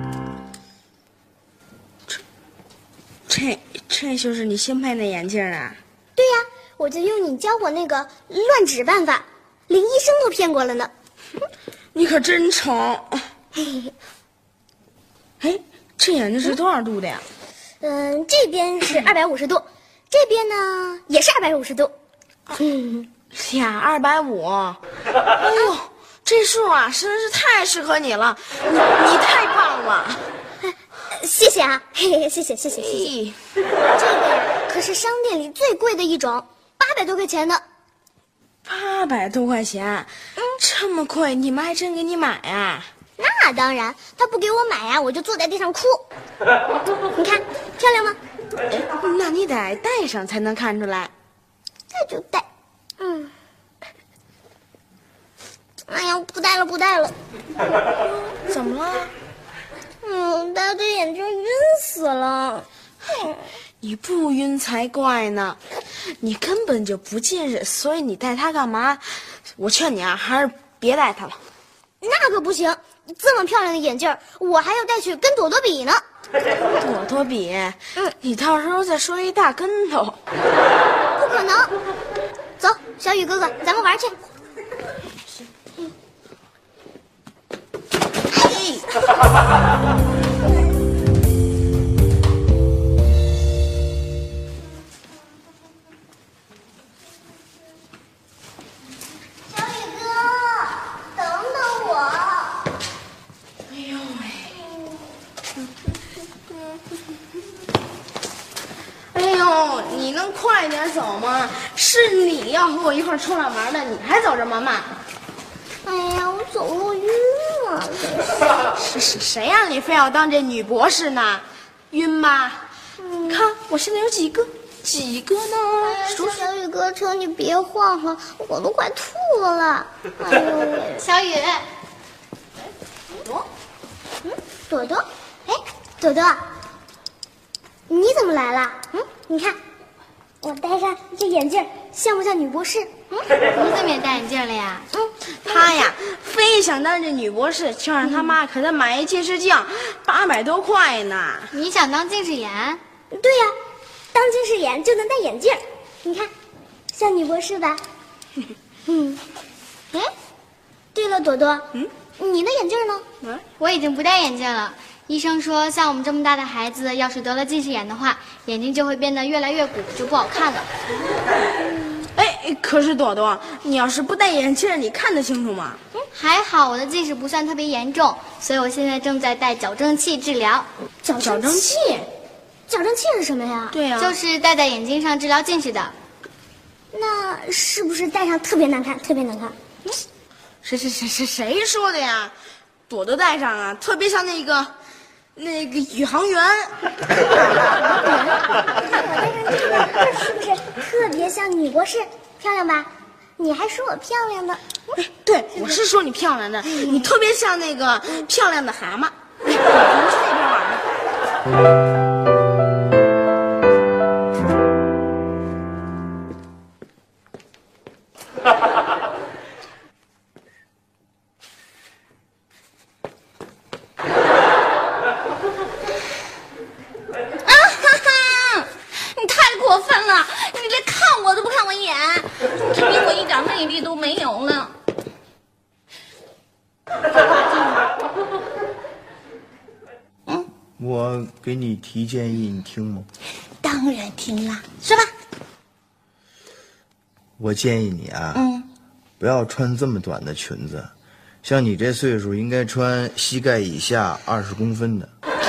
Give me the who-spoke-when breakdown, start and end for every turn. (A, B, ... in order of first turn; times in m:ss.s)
0:03.3-0:05.8 A
0:06.2-0:10.9 B
0:11.9-0:13.3 A
0:13.6-0:13.9 B
0:15.4-0:17.2 A
0:17.8-0:21.9 B
0:22.5-0:23.1 B
0:23.3-0:24.8 A
0:25.4-0:30.2 A
0:30.7-0:33.1 B
0:32.8-0:33.4 A
0:33.9-0:37.6 B
0:38.6-0:42.9 A
0:43.2-0:46.0 B
0:47.1-0:48.2 B
0:48.7-0:51.1 A
0:51.9-0:52.4 B
0:53.0-0:53.3 B
0:55.9-0:57.1 B
0:58.4-0:59.1 A
1:00.0-1:02.7 B
1:03.8-1:05.6 A
1:06.2-1:11.4 A
1:12.0-1:16.0 B
1:16.7-1:20.2 A
1:21.2-1:21.7 B
1:22.6-1:24.2 B
1:39.5-1:42.6 B
1:43.7-1:44.6 A
1:49.1-1:54.9 A
1:55.8-1:58.5 B
1:58.7-2:02.6 A
2:03.0-2:03.5 B
2:03.3-2:06.4 A
2:05.8-2:11.0 B
2:11.0-2:11.6 C
2:14.2-2:16.4 B
2:17.9-2:19.6 B
2:20.4-2:23.3 B
2:23.5-2:24.9 C
2:24.9-2:25.6 B
2:25.4-2:31.5 A
2:31.5-2:32.8 C
2:33.1-2:33.5 B
2:34.1-2:36.3 B
2:36.9-2:37.8 B
2:38.8-2:39.2 B
2:40.9-2:43.0 B
2:43.6-2:50.7 C
2:52.2-2:55.8 A
2:56.1-3:00.7 C
3:01.0-3:01.7 B
3:01.1-3:02.1 A
3:02.7-3:03.8 B
3:03.7-3:04.2 A
3:04.0-3:05.9 C
3:06.9-3:09.6 B
3:10.6-3:12.3 A
3:12.9-3:14.7 A
3:15.4-3:16.8 A
3:17.8-3:24.9 B
3:25.0-3:30.9 A
3:26.7-3:27.1 B
3:47.4-3:54.7 D
4:00.8-4:03.1 E
4:03.6-4:05.1 D
4:07.4-4:08.4 E
4:08.3-4:08.7 D
4:09.2-4:10.9 E
4:11.4-4:15.1 E